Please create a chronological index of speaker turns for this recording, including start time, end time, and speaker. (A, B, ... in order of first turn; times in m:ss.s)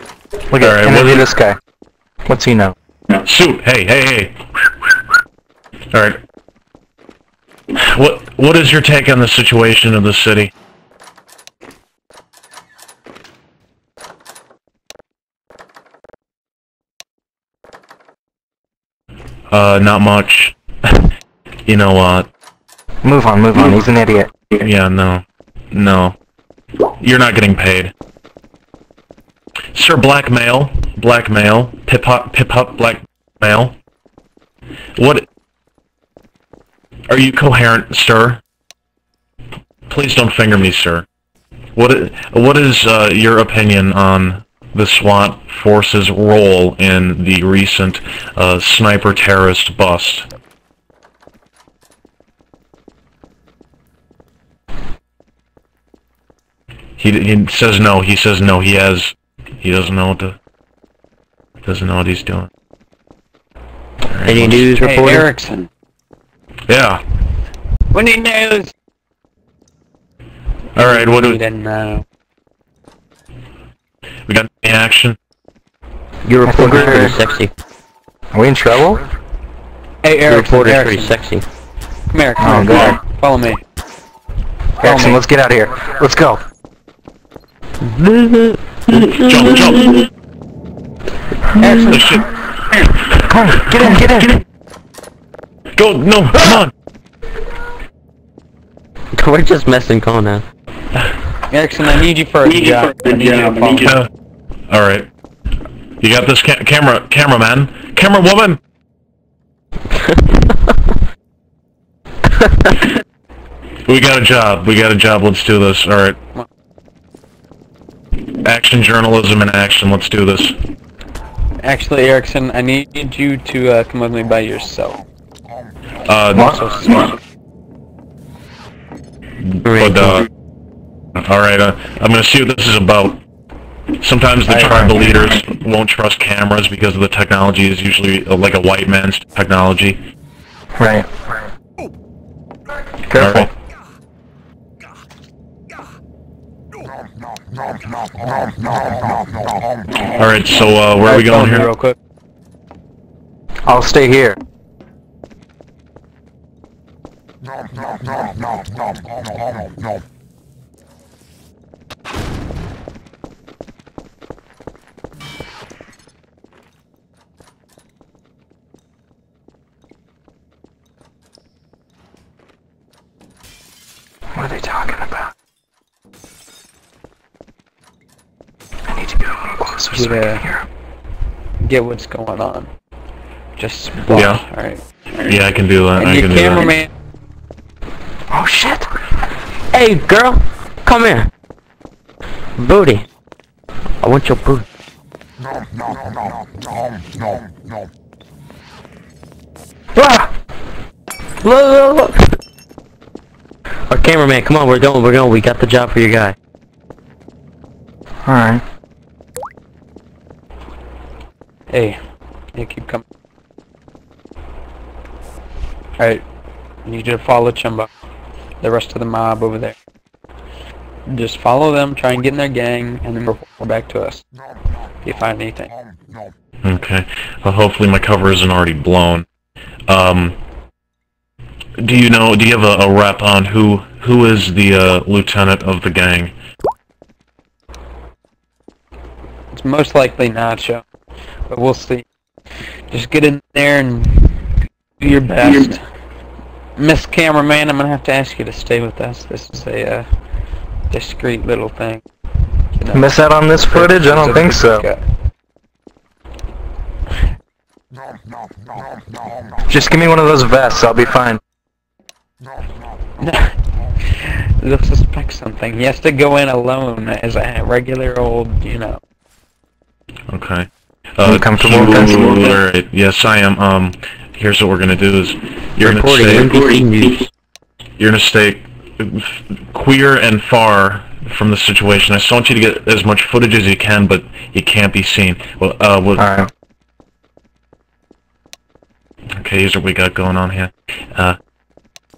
0:00.5-0:01.6 A
0:00.6-0:01.3 B
0:02.3-0:02.8 A
0:03.2-0:04.4 B
0:05.9-0:06.2 B
0:07.7-0:10.5 B
0:19.5-0:21.1 B
0:21.7-0:22.3 B
0:23.0-0:24.3 A
0:24.6-0:26.2 B
0:27.0-0:27.9 B
0:29.7-0:33.8 B
0:35.0-0:35.3 B
0:37.1-0:38.4 B
0:39.9-0:41.0 B
0:41.8-0:50.3 B
0:57.0-1:00.4 B
1:01.6-1:02.5 B
1:04.1-1:04.7 B
1:04.2-1:05.3 C
1:04.8-1:05.7 D
1:06.7-1:07.0 B
1:07.9-1:08.7 D
1:10.8-1:11.4 B
1:10.8-1:12.0 D
1:14.3-1:15.2 B
1:16.2-1:17.5 C
1:16.4-1:17.2 A
1:18.3-1:19.0 A
1:20.0-1:21.2 D
1:20.3-1:21.4 C
1:22.1-1:23.6 D
1:22.4-1:23.0 A
1:24.8-1:26.4 A
1:24.8-1:25.2 D
1:27.8-1:29.7 C
1:29.1-1:30.1 B
1:31.6-1:32.2 D
1:31.8-1:32.3 B
1:33.3-1:34.3 A
1:35.8-1:36.7 B
1:39.1-1:40.4 C
1:41.5-1:43.9 D
1:43.8-1:44.1 B
1:44.7-1:45.1 B
1:46.0-1:48.6 B
1:49.9-1:50.8 C
1:52.3-1:52.9 C
1:53.9-1:56.2 B
1:58.4-2:00.6 B
2:01.6-2:05.0 D
2:06.0-2:06.6 B
2:06.3-2:07.2 D
2:09.5-2:10.3 B
2:09.6-2:10.3 C
2:11.2-2:13.2 B
2:14.0-2:20.0 B
2:14.5-2:15.0 A
2:20.8-2:21.1 A
2:23.1-2:23.5 A
2:23.2-2:23.5 B
2:30.0-2:31.7 B
2:31.0-2:32.0 D
2:33.7-2:34.4 A
2:54.3-2:55.3 A
2:58.9-3:00.6 A
2:59.9-3:00.5 D
3:01.6-3:02.7 D
3:03.6-3:04.8 D
3:04.1-3:04.4 B
3:05.2-3:06.7 B
3:06.0-3:06.9 D
3:08.3-3:08.9 A
3:09.7-3:11.3 C
3:12.6-3:13.0 C
3:14.0-3:14.6 C
3:20.0-3:20.3 A
3:21.4-3:22.3 C
3:23.9-3:26.4 C
3:28.3-3:28.6 A
3:31.7-3:32.0 D
3:32.5-3:33.0 D
3:36.0-3:36.2 D
3:36.8-3:37.9 D
3:38.6-3:39.8 D
3:41.1-3:44.2 D
3:45.0-3:45.7 D
3:46.6-3:49.3 B
3:49.9-3:50.4 B
3:51.8-3:56.3 B
3:59.5-4:00.8 D
4:01.5-4:02.0 D
4:02.9-4:05.8 D
4:06.8-4:10.1 D
4:10.9-4:12.0 D
4:12.7-4:13.1 D
4:12.9-4:14.8 A
4:13.6-4:15.0 D
4:19.7-4:21.4 A
4:23.2-4:29.0 D
4:30.3-4:36.6 B
4:31.2-4:32.3 A
4:35.8-4:37.3 C
4:38.0-4:46.2 B
4:46.2-4:46.5 A
4:49.4-4:51.4 B